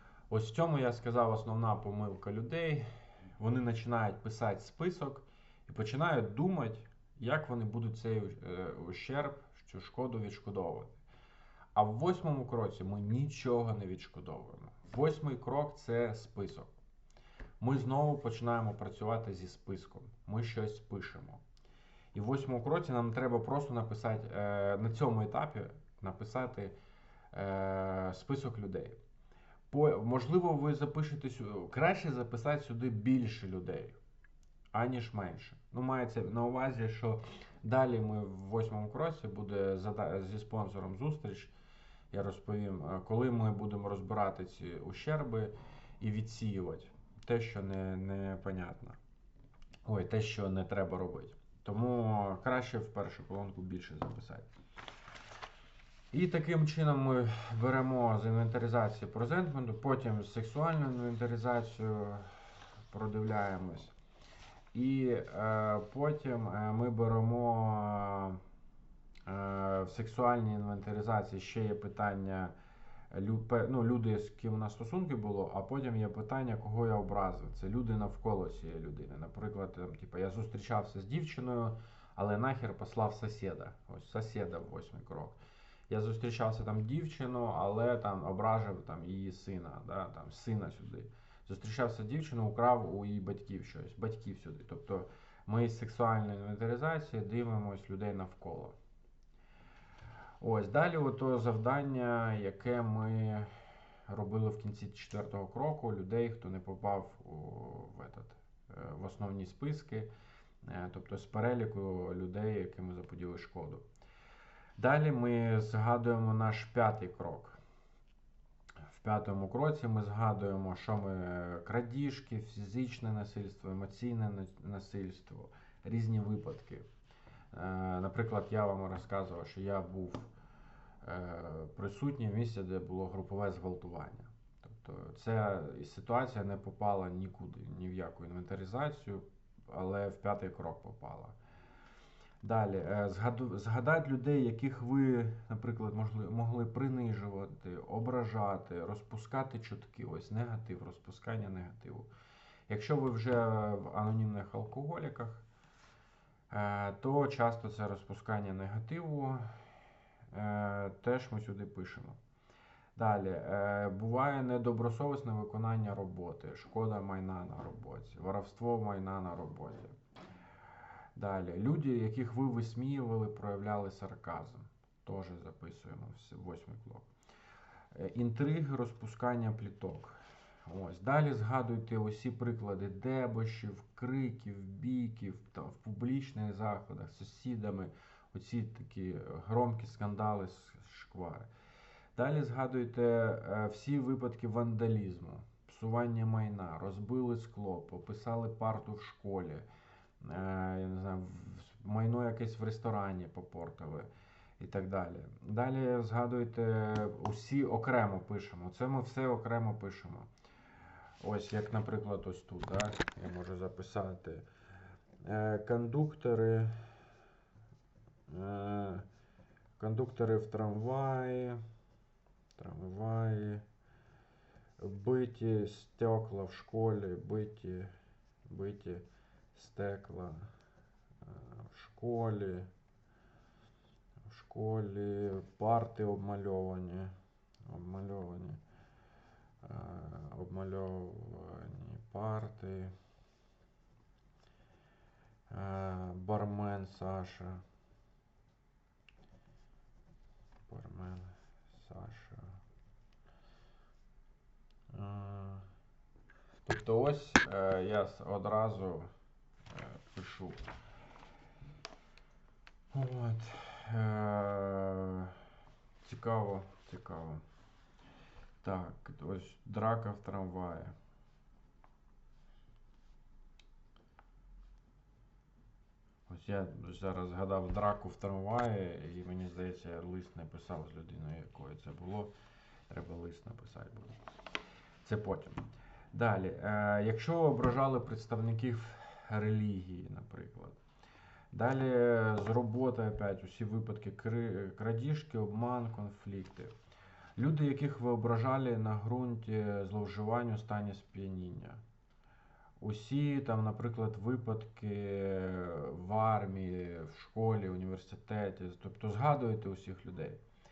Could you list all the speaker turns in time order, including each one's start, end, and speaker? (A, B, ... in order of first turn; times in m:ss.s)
0:00.3-0:11.0 A
0:11.8-0:16.7 A
0:17.6-0:21.4 A
0:22.1-0:26.7 A
0:27.3-0:29.0 A
0:29.7-0:34.0 A
0:34.7-0:41.5 A
0:42.1-0:49.0 A
0:49.8-0:54.5 A
0:56.1-1:04.0 A
1:04.7-1:08.4 A
1:09.3-1:12.5 A
1:13.1-1:25.4 A
1:25.9-1:38.8 A
1:40.4-1:43.5 A
1:44.1-1:50.1 A
1:50.6-1:53.8 A
1:54.8-1:57.6 A
1:58.9-2:06.9 A
2:07.5-2:10.3 A
2:11.0-2:21.4 A
2:22.4-2:32.1 A
2:32.7-2:35.4 A
2:36.5-2:39.5 A
2:40.3-2:42.2 A
2:43.0-2:50.0 A
2:51.2-2:57.1 A
2:57.9-3:11.5 A
3:12.2-3:19.7 A
3:20.2-3:30.3 A
3:31.2-3:34.4 A
3:35.2-3:36.8 A
3:38.3-3:39.1 A
3:39.8-3:41.6 A
3:42.6-3:43.6 A
3:44.8-3:47.9 A
3:48.5-3:50.5 A
3:51.2-3:52.7 A
3:54.2-3:57.1 A
3:57.7-3:58.6 A
3:59.6-4:02.9 A
4:05.5-4:07.6 A
4:10.7-4:12.6 A
4:14.9-4:15.7 A
4:16.6-4:19.1 A
4:19.7-4:20.7 A
4:22.9-4:25.4 A
4:26.0-4:27.4 A
4:28.6-4:30.9 A
4:36.3-4:42.3 A
4:42.9-4:44.2 A
4:45.0-4:50.8 A
4:51.5-4:56.7 A
4:57.4-5:01.8 A
5:02.8-5:10.4 A